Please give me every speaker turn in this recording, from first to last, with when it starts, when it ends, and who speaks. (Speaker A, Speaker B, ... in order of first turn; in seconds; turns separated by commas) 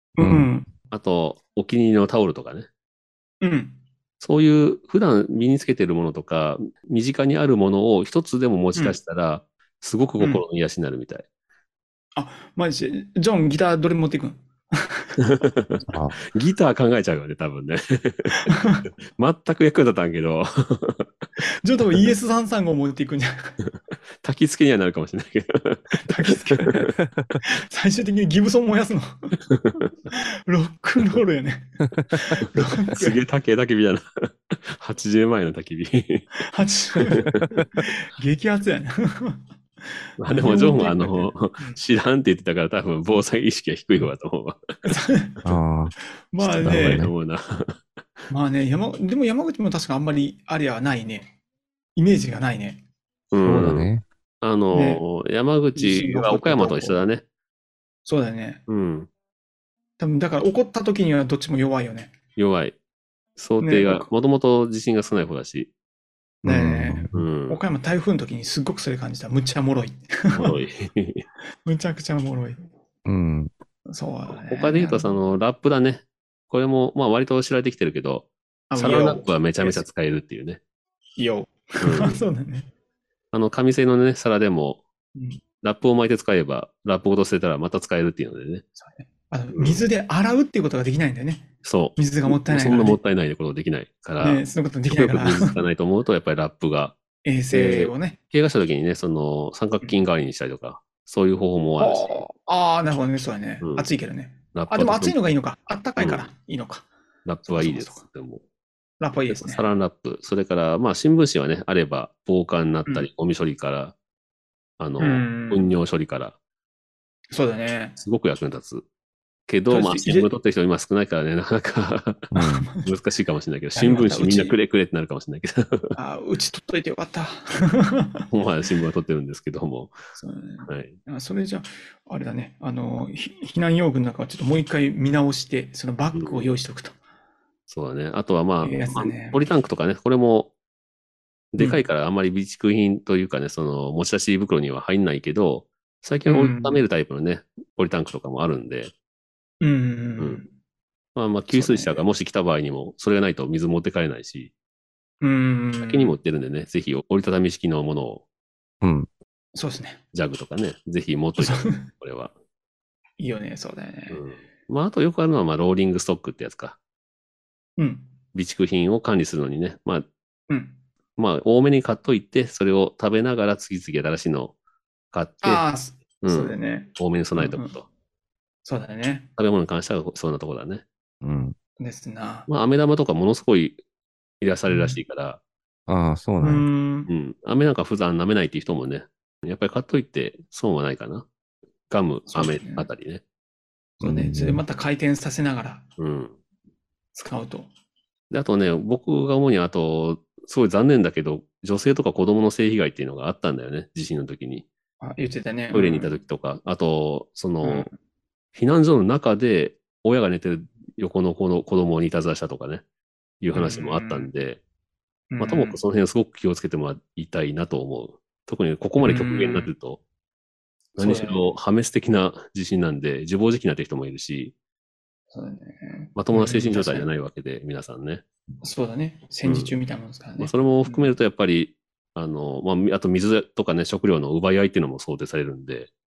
Speaker A: 0.1-0.7, Speaker B: 0.2-0.5, Speaker C: 0.9-2.7, Speaker A: 3.4-3.8, Speaker C: 4.2-11.2, Speaker A: 12.1-15.2, Speaker C: 15.2-15.8, Speaker C: 16.3-18.5, Speaker A: 18.4-18.8, Speaker C: 19.2-21.1, Speaker A: 21.6-23.6, Speaker C: 24.2-26.9, Speaker A: 26.0-26.9, Speaker A: 27.4-29.4, Speaker C: 29.5-29.9, Speaker A: 30.1-33.2, Speaker C: 32.5-36.3, Speaker A: 36.4-41.8, Speaker C: 37.0-37.4, Speaker C: 40.2-44.6, Speaker A: 44.9-45.4, Speaker B: 45.4-45.9, Speaker A: 46.3-47.1, Speaker C: 46.4-47.8, Speaker B: 46.6-47.1, Speaker A: 48.3-51.3, Speaker A: 52.0-52.8, Speaker C: 53.3-53.9, Speaker B: 53.4-54.0, Speaker C: 54.4-57.2, Speaker A: 54.7-55.0, Speaker A: 55.7-57.0, Speaker A: 58.0-58.6, Speaker C: 58.7-59.1, Speaker A: 60.0-62.1, Speaker C: 62.4-62.7, Speaker C: 63.4-65.7, Speaker A: 63.6-64.1, Speaker B: 66.4-67.1, Speaker A: 66.4-70.5, Speaker C: 67.1-67.6, Speaker C: 70.3-71.2, Speaker A: 71.6-72.7, Speaker B: 73.0-73.5, Speaker A: 73.9-75.1, Speaker C: 74.3-80.6, Speaker A: 78.7-79.8, Speaker A: 81.2-82.7, Speaker C: 81.8-82.2, Speaker C: 83.3-84.8, Speaker A: 85.1-85.4, Speaker C: 85.6-88.6, Speaker A: 88.8-93.0, Speaker C: 89.5-89.8, Speaker C: 91.6-96.9, Speaker A: 94.2-95.6, Speaker A: 97.2-98.2, Speaker C: 97.5-102.2, Speaker A: 101.8-106.9, Speaker C: 103.6-103.9, Speaker C: 104.5-105.2, Speaker C: 106.0-106.3, Speaker C: 107.2-108.4, Speaker A: 107.5-108.0, Speaker A: 109.0-109.7, Speaker C: 109.3-113.9, Speaker C: 114.8-116.3, Speaker A: 115.0-115.7, Speaker A: 117.3-118.0, Speaker C: 118.0-118.8, Speaker C: 119.5-122.3, Speaker A: 119.7-120.3, Speaker B: 122.3-122.7, Speaker A: 122.4-122.9, Speaker C: 122.8-126.0, Speaker A: 123.8-124.5, Speaker A: 125.9-128.3, Speaker C: 128.3-129.9, Speaker A: 130.1-136.9, Speaker C: 130.7-130.9, Speaker C: 136.1-136.5, Speaker C: 137.7-140.5, Speaker A: 138.6-139.4, Speaker C: 141.5-148.9, Speaker A: 146.3-146.8, Speaker A: 149.6-150.5, Speaker C: 151.1-154.5, Speaker A: 151.5-152.0, Speaker A: 155.2-156.2, Speaker C: 155.8-158.2, Speaker B: 158.8-159.1, Speaker A: 159.5-160.0, Speaker C: 160.1-162.3, Speaker A: 161.4-161.9, Speaker A: 163.2-164.2, Speaker C: 164.1-166.8, Speaker A: 167.8-168.1, Speaker C: 168.3-170.1, Speaker A: 170.5-170.8, Speaker C: 171.2-174.5, Speaker C: 175.1-175.7, Speaker A: 175.4-177.8, Speaker C: 176.2-177.9, Speaker A: 178.6-179.3, Speaker C: 179.4-180.8, Speaker B: 181.2-181.5, Speaker A: 181.8-182.5, Speaker C: 182.5-183.8, Speaker C: 184.4-185.4, Speaker A: 184.7-185.0, Speaker B: 185.9-186.7, Speaker A: 186.4-187.1, Speaker C: 187.1-191.3, Speaker C: 191.9-193.2, Speaker A: 192.3-192.9, Speaker A: 194.0-195.9, Speaker B: 194.0-194.6, Speaker C: 196.0-196.4, Speaker A: 197.1-197.7, Speaker C: 198.3-204.7, Speaker A: 205.0-206.1, Speaker C: 205.7-207.9, Speaker A: 207.6-207.9, Speaker C: 208.5-212.8, Speaker C: 213.4-214.6, Speaker A: 213.5-214.3, Speaker A: 215.3-215.8, Speaker C: 215.4-220.0, Speaker A: 219.0-219.7, Speaker A: 221.0-221.5, Speaker C: 221.0-224.5, Speaker A: 225.3-227.1, Speaker C: 226.2-228.2, Speaker A: 228.6-231.1, Speaker C: 229.4-229.7, Speaker C: 230.4-235.9